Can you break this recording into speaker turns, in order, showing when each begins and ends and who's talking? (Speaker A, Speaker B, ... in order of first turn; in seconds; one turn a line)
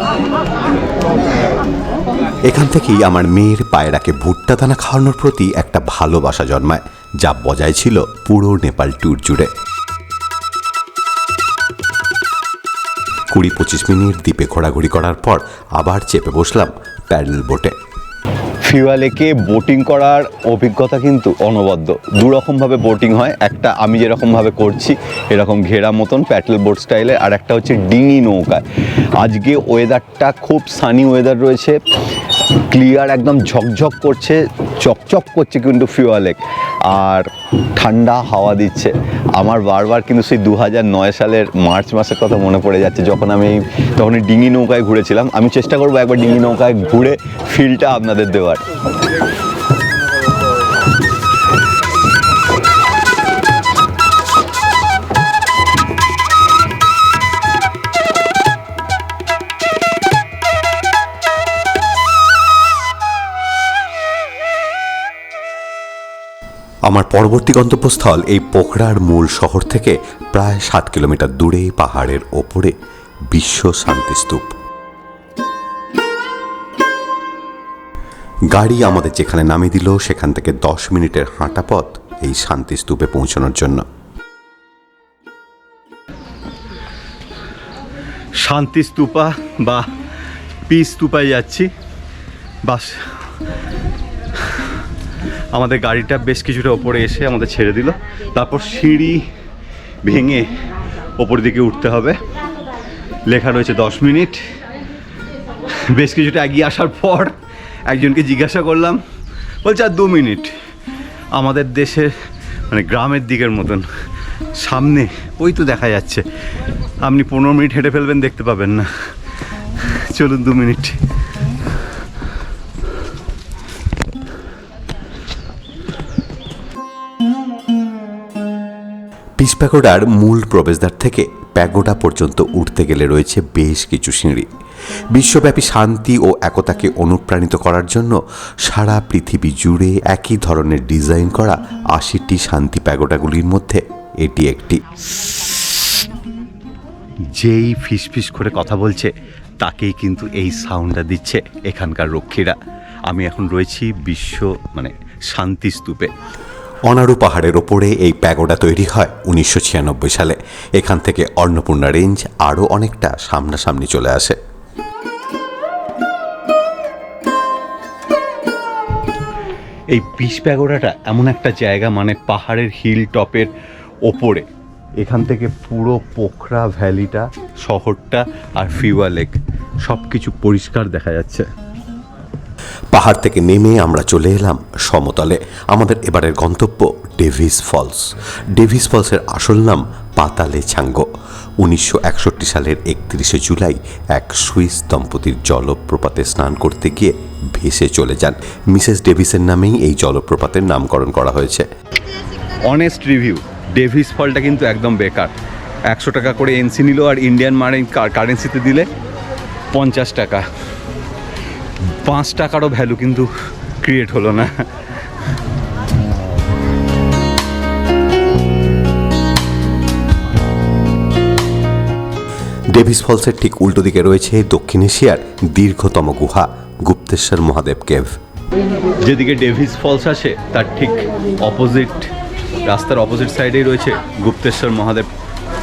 Speaker A: 2.5-9.5
Speaker A: 13.3-17.8
Speaker B: 18.6-28.6
Speaker B: 29.2-31.8
Speaker B: 32.7-48.6
Speaker A: 66.9-72.8
Speaker A: 73.3-74.5
Speaker A: 78.5-83.8
Speaker B: 88.4-89.9
Speaker B: 90.7-91.7
Speaker B: 92.7-93.1
Speaker B: 95.5-99.2
Speaker B: 100.0-100.5
Speaker B: 101.2-102.2
Speaker B: 103.3-104.4
Speaker B: 105.8-107.3
Speaker B: 107.9-109.0
Speaker B: 109.6-110.5
Speaker B: 111.3-112.1
Speaker B: 112.7-113.8
Speaker B: 114.6-116.2
Speaker B: 117.0-118.9
Speaker B: 120.1-121.0
Speaker A: 129.4-134.5
Speaker A: 135.1-144.8
Speaker B: 147.3-152.6
Speaker B: 153.1-156.1
Speaker A: 156.9-164.4
Speaker B: 169.9-173.5
Speaker B: 174.1-174.5
Speaker B: 175.0-181.5
Speaker A: 182.9-191.1
Speaker A: 191.6-201.7
Speaker B: 202.7-205.3
Speaker B: 205.9-208.9
Speaker B: 209.7-210.4
Speaker B: 212.0-213.3
Speaker B: 213.8-214.6
Speaker A: 222.7-228.2
Speaker B: 229.0-232.1
Speaker B: 232.7-235.1